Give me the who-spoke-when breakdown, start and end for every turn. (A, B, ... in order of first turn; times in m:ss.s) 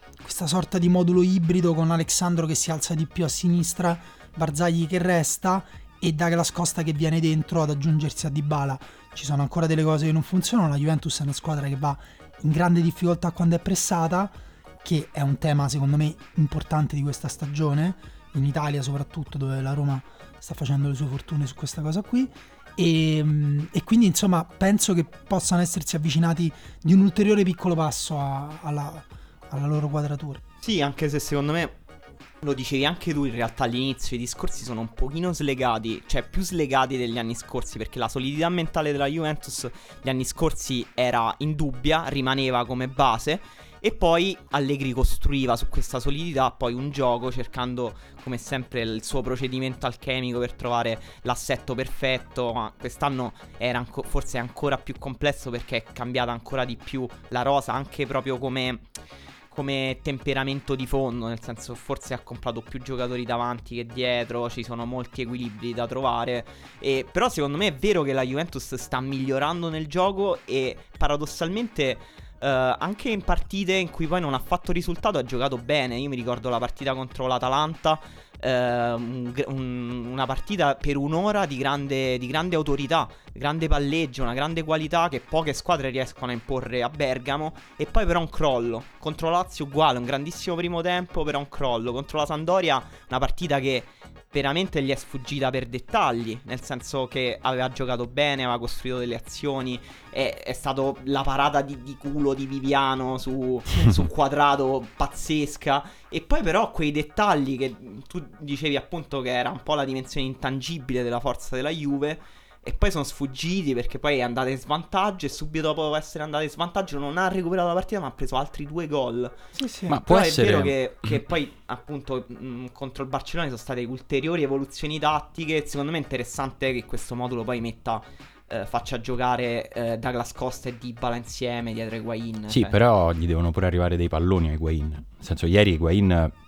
0:00.2-0:30.4 A
0:30.6-0:31.7 B
0:32.4-0:58.8 B
0:59.5-1:59.4 B
1:59.5-2:00.0 A
1:59.9-2:01.1 C
2:00.0-2:12.8 B
2:12.5-2:16.3 C